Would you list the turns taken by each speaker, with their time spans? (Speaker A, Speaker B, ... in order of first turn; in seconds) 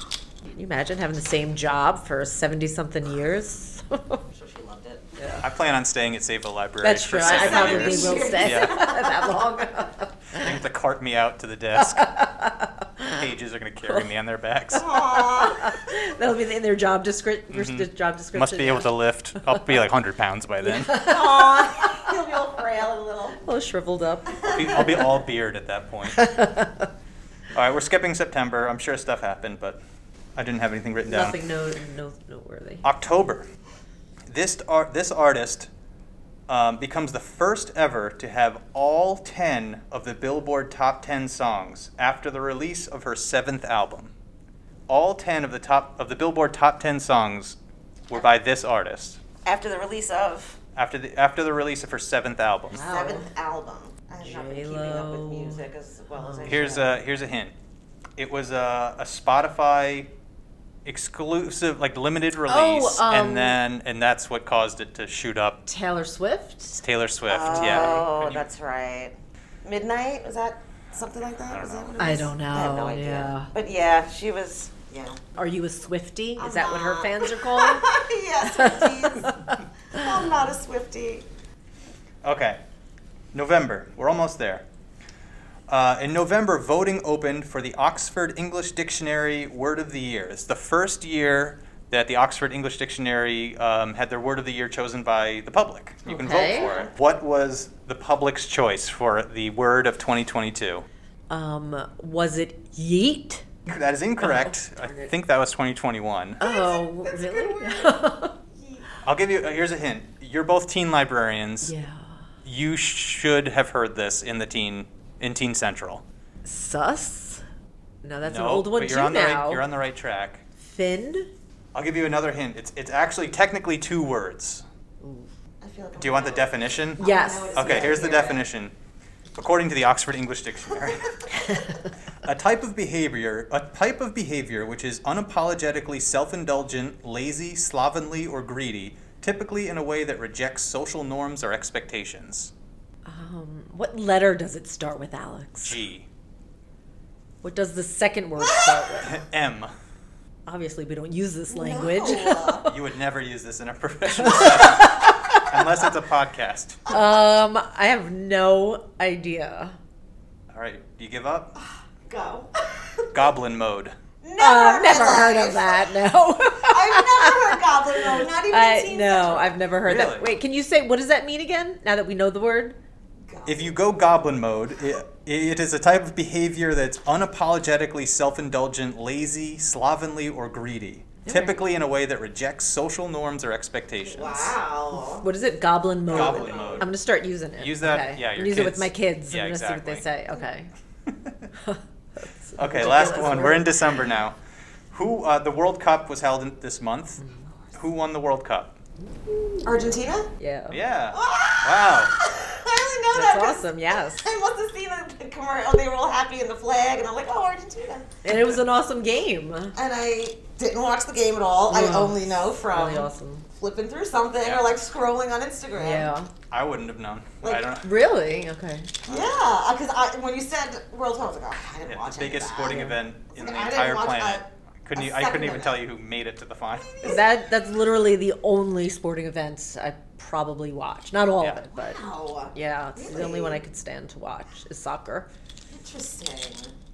Speaker A: 0.4-4.2, 5.2-5.5, 6.8-10.6, 11.8-13.2, 14.8-19.6, 20.6-22.0, 23.4-25.1, 26.1-26.9, 31.1-32.9, 52.7-53.3, 54.2-55.6, 56.1-56.9, 62.5-63.6, 65.7-66.8, 67.5-68.1, 72.0-73.5, 75.4-77.9, 78.5-80.1, 96.1-96.7, 101.3-105.1, 106.4-108.4, 111.6-112.2, 116.5-117.4, 118.0-119.6, 120.6-121.3, 125.0-125.3, 127.0-128.1, 143.1-145.8, 147.4-149.2, 150.5-152.7, 154.1-155.5, 156.9-159.8, 164.4-172.8, 181.2-181.6, 185.2-190.7, 191.6-194.0, 197.2-197.5, 199.2-200.8, 203.1-204.3, 208.2-209.8, 211.7-213.5, 215.8-216.3, 217.8-218.9, 222.7-223.0, 227.0-232.0, 232.5-235.3
Speaker B: 4.3-5.1, 7.2-9.4, 14.8-15.7, 20.9-23.4, 24.4-24.9, 49.5-50.6, 52.9-56.9, 67.3-75.2, 76.4-79.3, 79.9-81.3, 96.3-96.9, 106.4-108.0, 108.5-108.9, 125.6-128.4, 148.5-148.8, 151.5-152.7, 162.1-163.1, 164.2-165.9, 166.7-169.6, 173.3-173.8, 184.1-185.3, 186.1-186.9, 199.6-200.3, 201.1-208.1, 209.8-216.1, 219.1-225.8, 231.7-233.6, 235.7-236.8
Speaker C: 5.4-8.8, 10.3-12.2, 13.1-14.9, 17.5-21.0, 24.5-26.2, 27.5-29.8, 30.4-31.4, 32.8-33.5, 34.3-35.7, 36.5-44.1, 44.9-47.6, 48.1-49.2, 50.8-52.8, 56.4-57.5, 58.2-60.1, 60.9-65.7, 66.8-68.4, 71.5-72.1, 82.2-82.6, 83.3-84.7, 85.7-100.9, 103.7-106.4, 109.0-111.7, 112.5-116.0, 118.2-120.4, 121.7-124.6, 126.0-127.0, 127.5-128.7, 129.4-131.6, 132.2-142.5, 145.6-146.1, 149.0-149.7, 152.7-157.0, 160.5-161.6, 163.1-163.9, 169.9-170.3, 173.5-184.6, 186.1-186.9, 187.6-190.1, 191.1-191.4, 192.6-194.4, 194.9-197.2, 197.7-198.8, 200.7-202.2, 216.5-217.9, 219.1-219.4, 221.8-227.1